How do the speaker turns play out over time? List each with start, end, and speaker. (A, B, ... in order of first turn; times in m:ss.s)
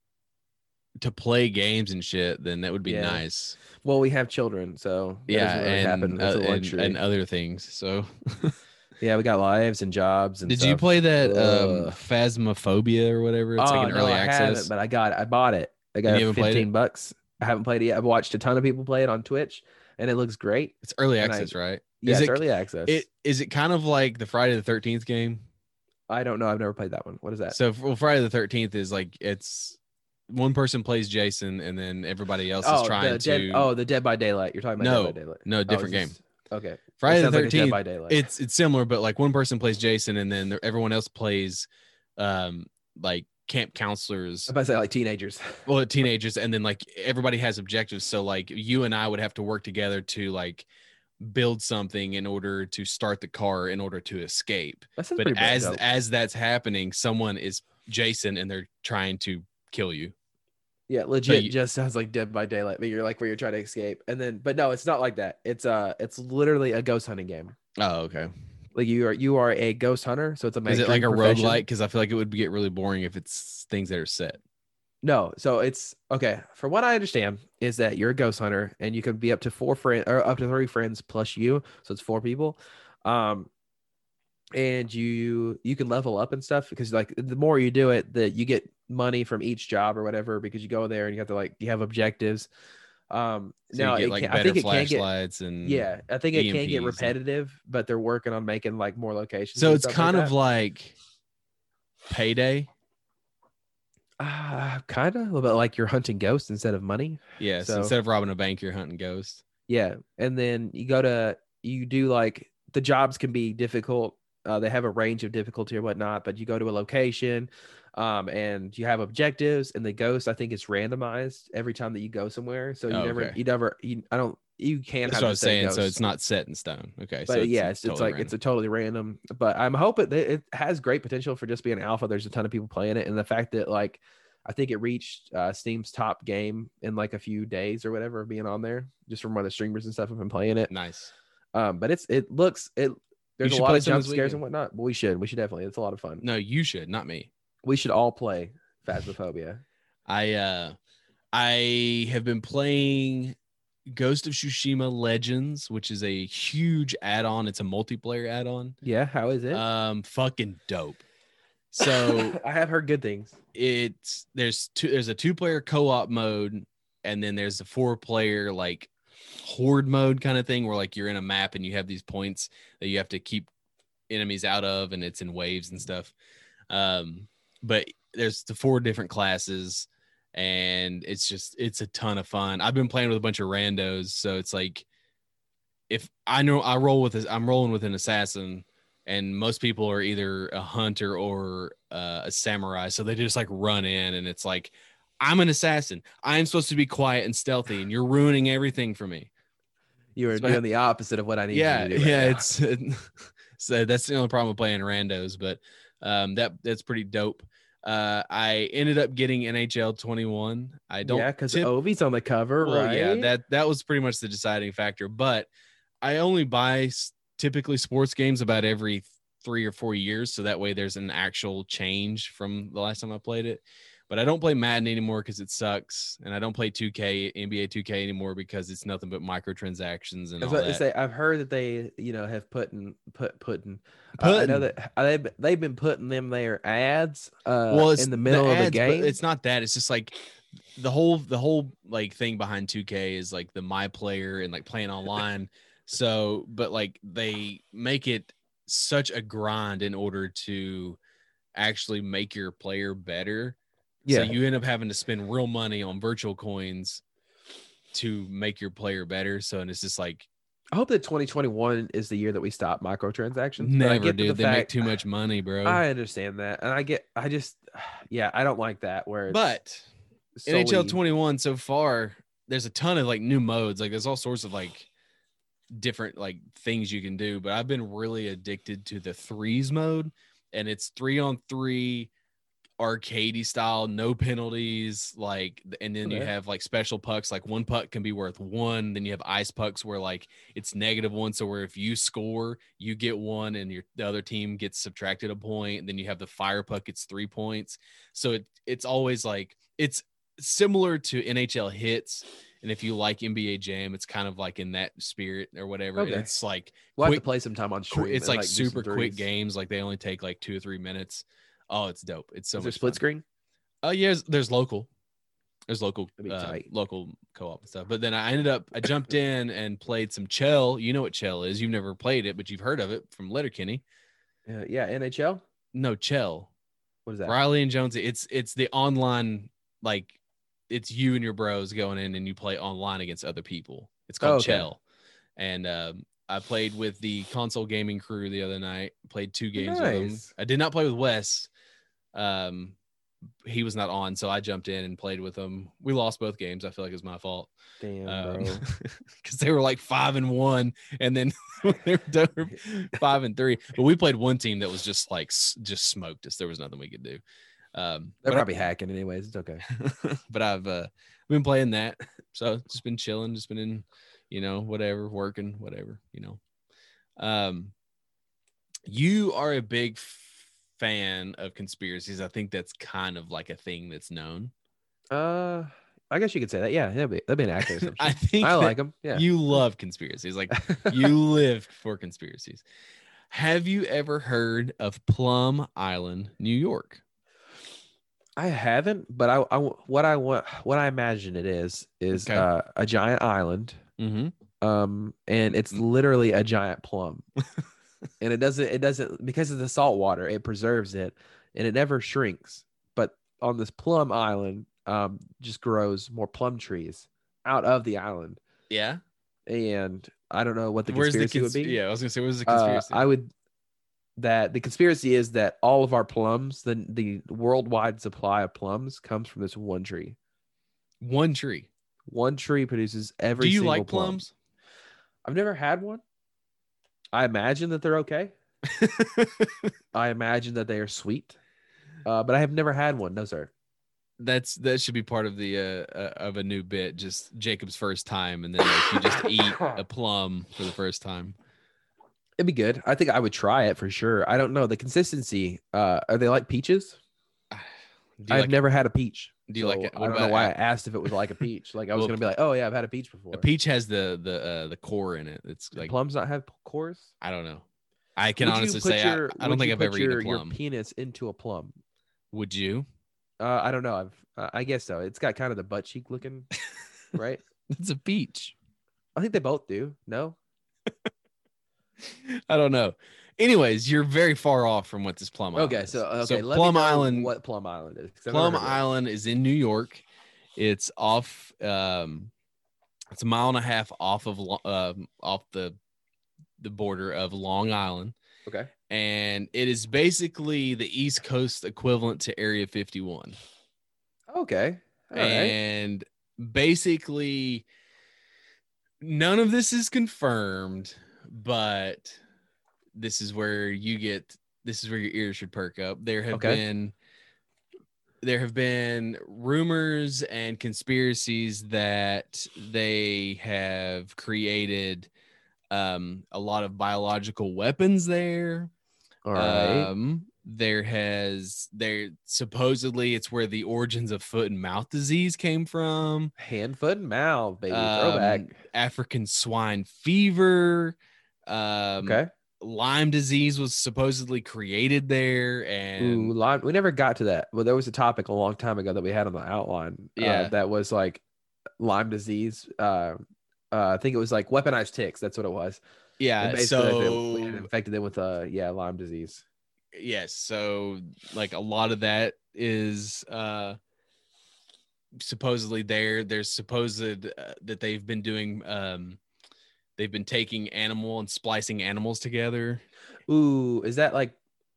0:01.0-0:03.6 A
0:02.8-0:03.2 B
0:03.8-0:07.0 B
0:05.3-0:08.6 A
0:09.0-0:12.0 B
0:10.5-0:14.7 A
0:13.6-0:23.0 B
0:16.1-0:16.7 A
0:20.8-0:25.4 A
0:26.1-0:27.6 B
0:27.5-0:29.8 A
0:30.3-0:33.7 A
0:32.6-0:38.2 B
0:34.8-0:36.2 A
0:37.0-0:44.5 A
0:44.5-0:45.6 B
0:45.7-0:50.7 A
0:51.2-1:00.1 A
0:55.0-0:55.8 B
1:00.9-1:07.6 B
1:01.3-1:01.5 A
1:07.8-1:08.3 A
1:08.8-1:11.6 B
1:10.7-1:14.4 A
1:15.0-1:23.5 B
1:24.6-1:32.5 B
1:33.1-1:35.1 B
1:33.7-1:37.2 A
1:35.6-1:40.3 B
1:39.6-1:41.0 A
1:42.1-1:42.7 A
1:44.2-1:47.9 B
1:47.4-1:49.4 A
1:49.7-2:06.0 B
2:02.9-2:03.4 A
2:05.1-2:08.3 A
2:07.3-2:20.7 B
2:20.7-2:21.1 A
2:21.5-2:26.2 B
2:23.4-2:24.4 A
2:26.2-2:27.3 A
2:27.6-2:29.6 B
2:30.1-2:30.8 A
2:31.3-2:33.4 A
2:33.9-2:38.8 A
2:38.8-2:39.6 B
2:39.5-2:41.0 A
2:41.7-2:42.4 A
2:41.8-2:43.4 B
2:43.5-2:48.9 A
2:49.4-2:53.5 A
2:54.1-2:56.1 A
2:56.7-3:04.9 A
3:05.9-3:19.3 A
3:20.2-3:22.4 B
3:20.4-3:20.6 A
3:21.5-3:31.7 A
3:31.0-3:33.3 B
3:32.6-3:35.5 A
3:36.0-3:50.8 A
3:50.4-3:59.2 B
3:54.2-3:54.7 A
3:57.7-4:00.2 A
4:00.8-4:11.0 A
4:11.6-4:13.6 A
4:14.1-4:14.4 B
4:14.1-4:17.0 A
4:17.9-4:20.3 A
4:20.7-4:24.8 B
4:23.6-4:25.8 A
4:25.6-4:29.5 B
4:29.3-4:29.9 A
4:30.4-4:31.0 B
4:30.5-4:34.9 A
4:35.7-4:42.1 A
4:42.8-5:07.2 A
4:46.0-4:46.3 B
5:06.0-5:06.3 B
5:07.0-5:09.3 B
5:07.9-5:13.0 A
5:12.6-5:13.2 B
5:13.8-5:14.9 A
5:15.7-5:23.8 A
5:16.2-5:16.6 B
5:24.5-5:25.4 B
5:25.7-5:26.5 A
5:27.1-5:27.4 B
5:27.3-5:30.2 A
5:30.7-5:34.8 A
5:34.2-5:34.7 B
5:35.4-5:41.5 A
5:39.6-5:40.3 B
5:42.1-5:42.8 A
5:43.4-5:47.5 A
5:47.8-5:48.6 B
5:48.1-5:57.2 A
5:57.7-5:58.5 A
5:58.2-5:59.6 B
5:59.7-6:06.4 A
6:07.2-6:07.7 A
6:08.9-6:14.5 A
6:15.1-6:19.3 B
6:17.7-6:22.6 A
6:20.5-6:21.1 B
6:23.3-6:27.0 A
6:28.4-6:33.8 B
6:32.1-6:32.5 A
6:34.0-6:34.3 A
6:34.6-6:37.2 B
6:38.2-6:48.4 B
6:48.7-6:49.0 A
6:49.5-6:51.8 B
6:50.9-6:53.0 A
6:52.5-6:53.3 B
6:54.2-7:00.2 B
7:01.0-7:01.7 A
7:02.1-7:04.2 B
7:03.4-7:04.3 A
7:05.2-7:06.0 B
7:07.1-7:08.3 B
7:08.7-7:09.7 A
7:09.9-7:11.4 B
7:12.0-7:13.5 B
7:14.2-7:21.4 A
7:22.4-7:27.0 B
7:27.5-7:28.6 A
7:28.3-7:33.5 B
7:29.5-7:30.5 A
7:33.3-7:35.9 A
7:35.8-7:37.1 B
7:37.2-7:37.6 A
7:38.2-7:40.6 A
7:38.4-7:41.8 B
7:42.3-7:42.9 A
7:43.4-7:46.5 B
7:47.1-7:47.4 B
7:47.7-7:48.6 A
7:49.2-7:50.4 B
7:52.0-7:57.3 A
7:55.6-7:58.8 B
7:58.3-8:00.0 A
8:00.6-8:02.3 A
8:03.1-8:05.8 A
8:06.6-8:08.2 A
8:08.9-8:13.4 A
8:14.3-8:15.6 B
8:15.2-8:17.7 A
8:19.0-8:22.2 A
8:23.0-8:26.9 A
8:26.3-8:26.6 B
8:28.2-8:35.1 A
8:35.7-8:38.7 A
8:39.3-8:39.9 B
8:39.4-8:46.3 A
8:46.4-8:48.5 B
8:47.7-8:51.0 A
8:51.5-8:56.3 A
8:52.0-8:52.3 B
8:56.0-9:01.2 B
9:00.2-9:00.5 A
9:01.8-9:03.2 B
9:03.7-9:05.8 B
9:06.2-9:07.7 A
9:06.4-9:09.4 B
9:09.9-9:13.8 A
9:15.2-9:19.2 A
9:20.0-9:22.8 A
9:23.3-9:24.4 B